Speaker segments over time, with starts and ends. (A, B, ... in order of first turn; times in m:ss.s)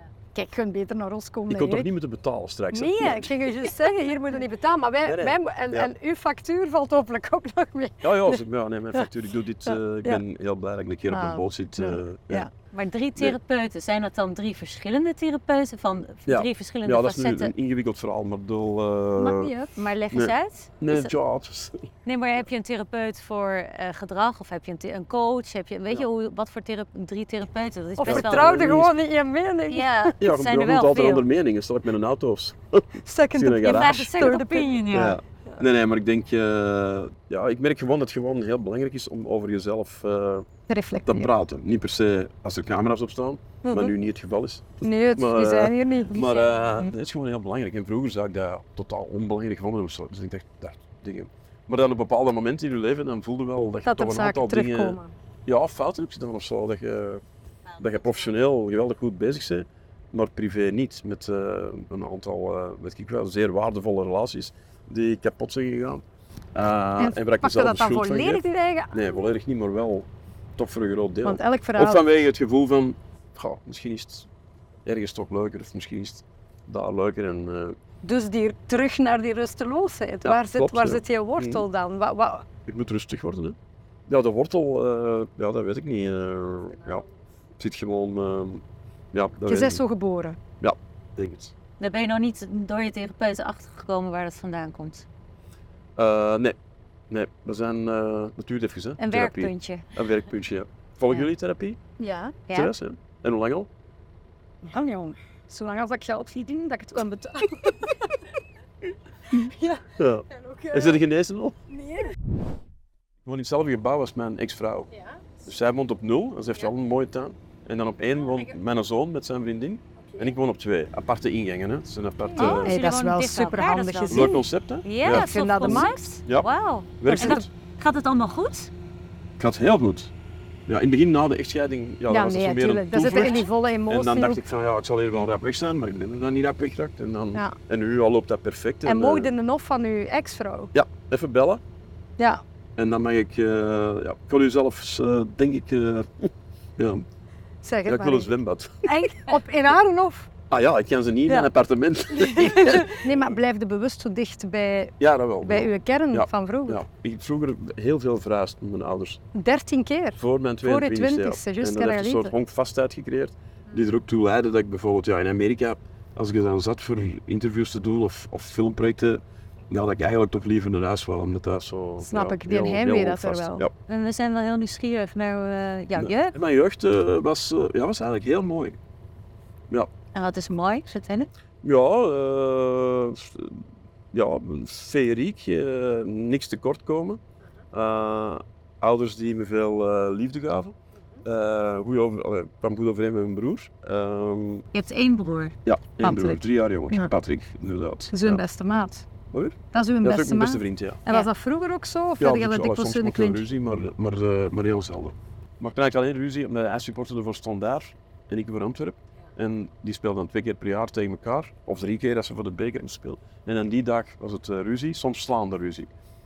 0:00.3-0:01.9 A
0:01.5-0:03.5 B
0:02.7-0:08.4 A
0:05.0-0:05.9 B
0:08.0-0:12.5 B
0:11.1-0:12.5 A
0:12.7-0:17.5 C
0:16.3-0:19.5 B
0:19.2-0:19.7 A
0:19.7-0:21.1 C
0:20.1-0:21.9 B
0:22.1-0:28.8 C
0:28.0-0:30.1 A
0:28.0-0:28.9 B
0:29.7-0:31.3 C
0:30.2-0:34.4 B
0:33.0-0:34.8 A
0:33.5-0:35.2 C
0:34.9-0:40.5 B
0:40.7-0:41.3 A
0:41.1-0:57.2 B
0:43.6-0:43.9 A
0:44.8-0:46.4 A
0:53.8-0:55.1 A
0:57.8-1:14.3 B
1:07.0-1:09.0 A
1:11.2-1:12.0 A
1:14.8-1:17.8 B
1:18.0-1:22.5 A
1:20.2-1:21.7 B
1:22.7-1:27.1 B
1:27.6-1:29.8 B
1:29.5-1:30.4 A
1:30.6-1:31.5 B
1:31.8-1:35.0 C
1:36.0-1:36.6 B
1:37.1-1:41.8 B
1:39.0-1:39.8 C
1:42.0-1:42.4 A
1:42.5-1:43.7 B
1:44.6-1:48.1 A
1:49.3-1:51.0 A
1:50.0-1:51.6 B
1:51.7-1:52.1 A
1:53.2-1:54.9 B
1:55.4-2:02.8 B
2:02.4-2:08.7 C
2:02.4-2:04.4 A
2:04.1-2:07.5 B
2:05.0-2:06.2 A
2:07.1-2:07.5 A
2:09.4-2:10.1 B
2:10.7-2:19.3 B
2:12.1-2:14.4 A
2:18.9-2:20.7 A
2:20.7-2:21.6 B
2:22.8-2:27.0 B
2:27.6-2:28.3 A
2:27.8-2:29.0 B
2:28.9-2:30.3 A
2:30.5-2:33.4 B
2:32.2-2:36.8 A
2:35.0-2:39.2 B
2:39.4-2:42.3 A
2:40.2-2:53.7 B
2:52.1-2:53.6 A
2:53.9-2:56.4 C
2:56.0-2:58.8 B
3:00.1-3:01.3 C
3:01.6-3:07.2 B
3:07.7-3:14.7 B
3:14.7-3:15.6 C
3:15.6-3:18.4 B
3:16.0-3:16.4 A
3:18.1-3:19.0 A
3:19.3-3:21.0 B
3:19.7-3:23.4 A
3:22.2-3:35.9 B